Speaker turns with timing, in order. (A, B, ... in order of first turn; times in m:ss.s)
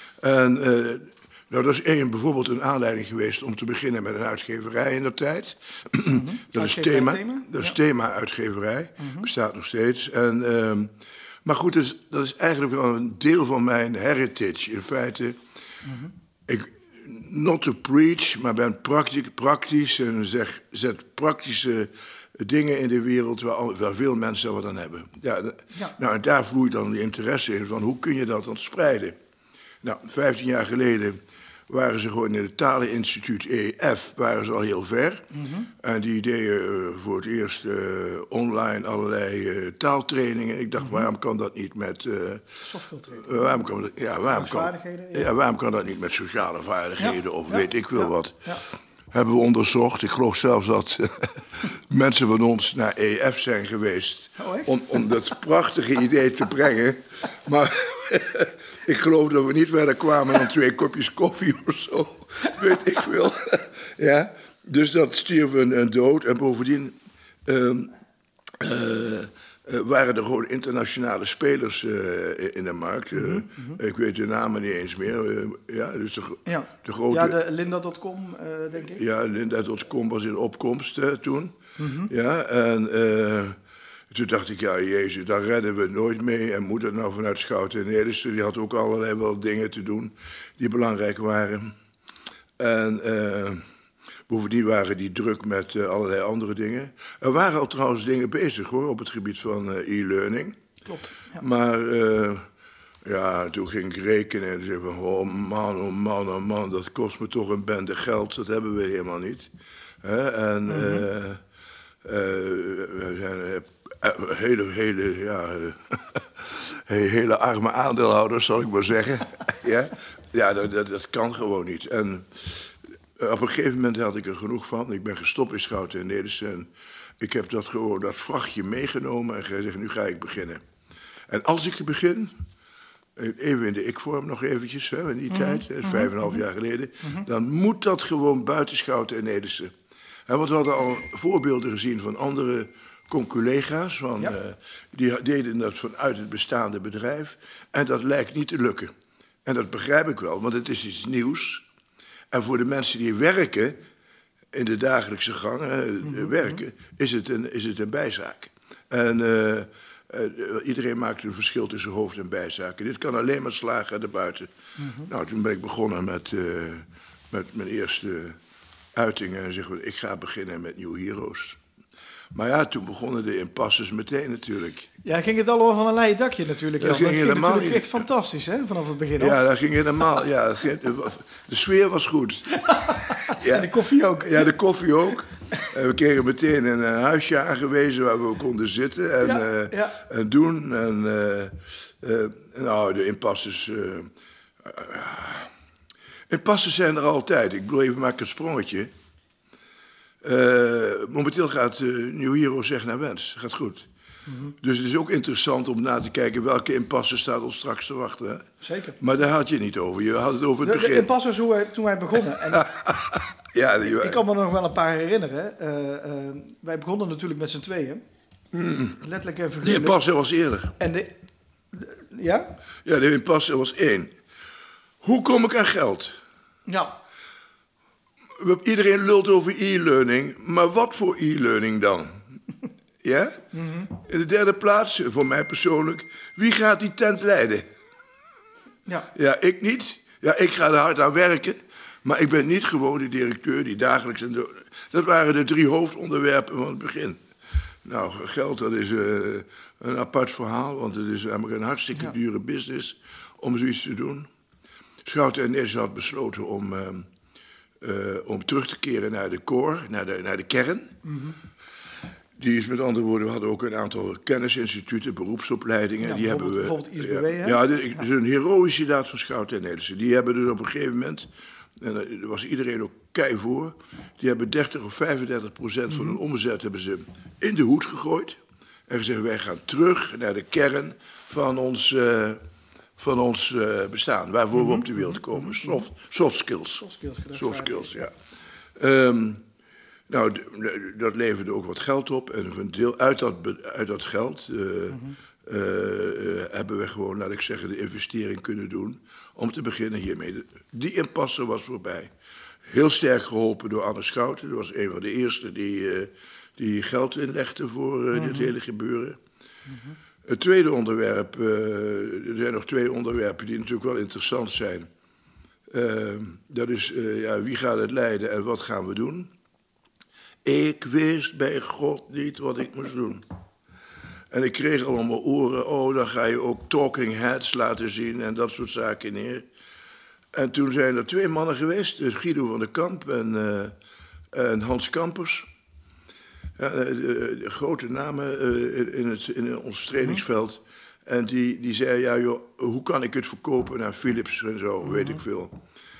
0:00.2-0:10.9 A
0:06.1-0:07.8 B
0:09.0-0:09.3 B
0:11.4-0:15.4 A
0:15.8-0:16.1 B
0:16.5-0:29.2 A
0:29.8-0:42.6 A
0:35.3-0:35.7 B
0:40.8-0:41.1 B
0:42.6-0:43.6 B
0:43.1-0:48.5 A
0:44.3-0:45.3 B
0:47.0-0:48.6 B
0:49.1-1:07.9 A
0:54.4-0:54.7 B
1:08.6-1:17.4 A
1:13.1-1:13.8 B
1:16.5-1:19.0 B
1:18.9-1:23.6 A
1:21.8-1:22.1 B
1:24.1-1:31.7 A
1:32.6-1:33.6 A
1:34.3-1:40.6 A
1:40.9-1:41.4 B
1:41.3-1:42.4 A
1:43.0-1:49.5 A
1:50.0-1:51.4 A
1:50.7-1:51.1 B
1:52.0-2:10.6 A
2:11.3-2:12.4 A
2:13.2-2:19.7 A
2:15.3-2:16.4 B
2:20.3-2:28.9 A
2:29.4-2:31.7 A
2:32.3-2:33.8 A
2:34.5-2:48.4 A
2:36.0-2:36.5 B
2:44.8-2:45.1 B
2:48.9-2:51.6 A
2:52.3-2:54.9 A
2:55.0-2:59.4 B
2:56.8-2:58.0 A
2:59.2-3:14.1 A
3:02.6-3:04.5 B
3:09.2-3:10.0 B
3:14.6-3:15.5 A
3:16.3-3:18.9 A
3:20.2-3:23.9 A
3:24.3-3:24.6 B
3:24.6-3:28.5 A
3:28.6-3:29.0 B
3:29.0-3:31.1 A
3:30.6-3:32.7 B
3:32.3-3:34.2 A
3:33.8-3:38.0 B
3:38.5-3:39.0 A
3:39.0-3:40.0 B
3:39.6-3:40.8 A
3:40.8-3:41.1 B
3:41.7-3:42.5 B
3:42.8-3:44.2 A
3:45.0-3:46.2 A
3:46.7-3:46.9 B
3:48.4-3:52.2 A
3:53.0-3:53.4 A
3:53.5-3:53.9 B
3:53.9-3:57.6 A
3:59.1-4:07.2 A
4:07.8-4:14.3 A
4:15.0-4:17.1 A
4:17.8-4:21.0 A
4:21.0-4:21.4 B
4:22.4-4:42.4 A
4:26.0-4:27.6 B
4:43.0-4:48.1 A
4:44.6-4:45.8 B
4:46.8-4:47.9 B
4:48.8-4:49.4 A
4:50.1-5:02.1 A
4:54.9-4:55.2 B
5:02.7-5:09.2 A
5:08.1-5:08.5 B
5:09.7-5:10.0 B
5:10.2-5:14.9 A
5:15.7-5:19.3 A
5:20.4-5:23.2 A
5:24.3-5:29.5 A
5:30.3-5:33.8 A
5:34.3-5:35.5 A
5:36.6-5:45.5 A
5:44.9-5:45.2 B